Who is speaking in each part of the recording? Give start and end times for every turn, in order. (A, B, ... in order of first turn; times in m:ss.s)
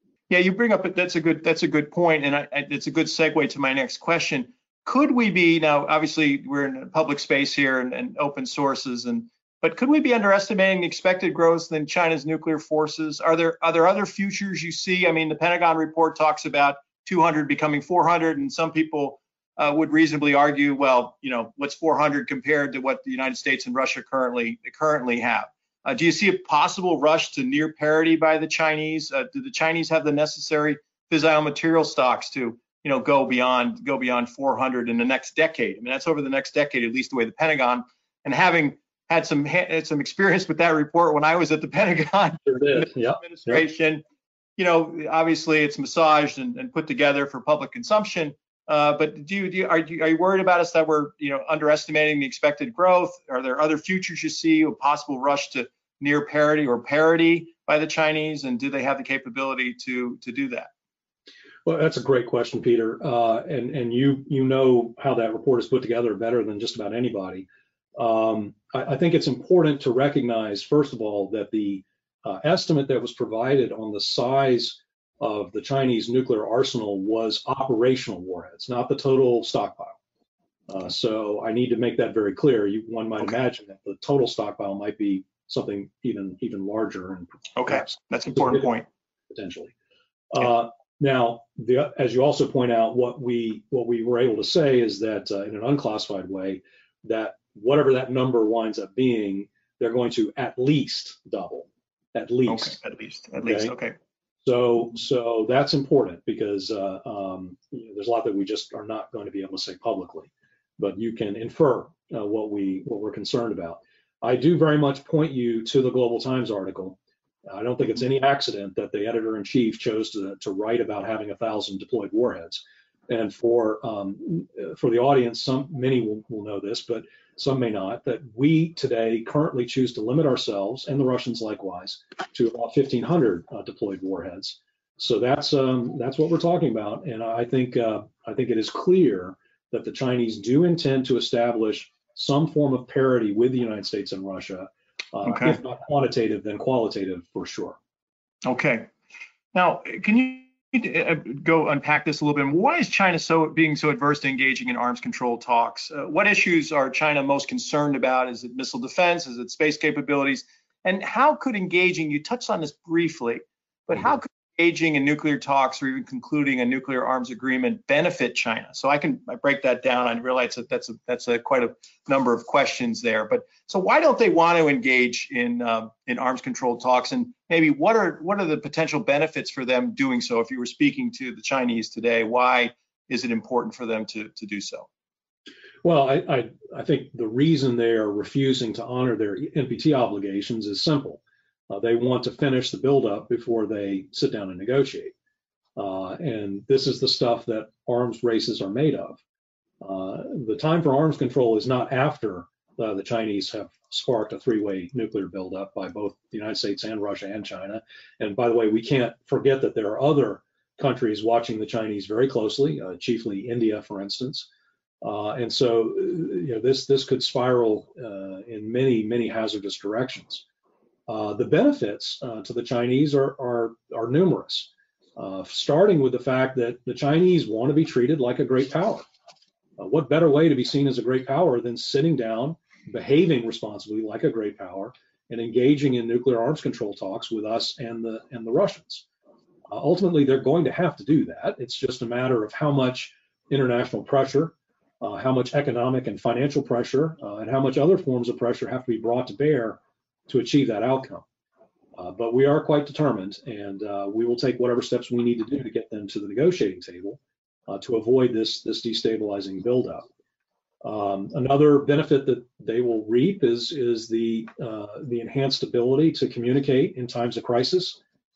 0:00.3-0:44.0 A
0:42.5-0:43.6 B
0:44.6-1:00.7 A
1:01.6-1:20.0 B
1:20.7-1:28.7 B
1:27.6-1:28.8 A
1:29.3-1:29.7 B
1:30.3-1:42.8 B
1:42.5-1:43.9 A
1:43.4-1:43.7 B
1:44.4-2:27.8 B
2:25.2-2:25.6 A
2:28.4-2:28.9 A
2:29.5-3:04.9 A
3:05.8-3:15.1 B
3:15.8-3:19.2 B
3:19.8-3:34.5 B
3:35.0-3:40.4 B
3:41.1-3:49.0 B
3:49.8-3:59.0 B
3:59.7-4:11.2 B
4:12.0-4:20.0 B
4:20.8-4:28.0 B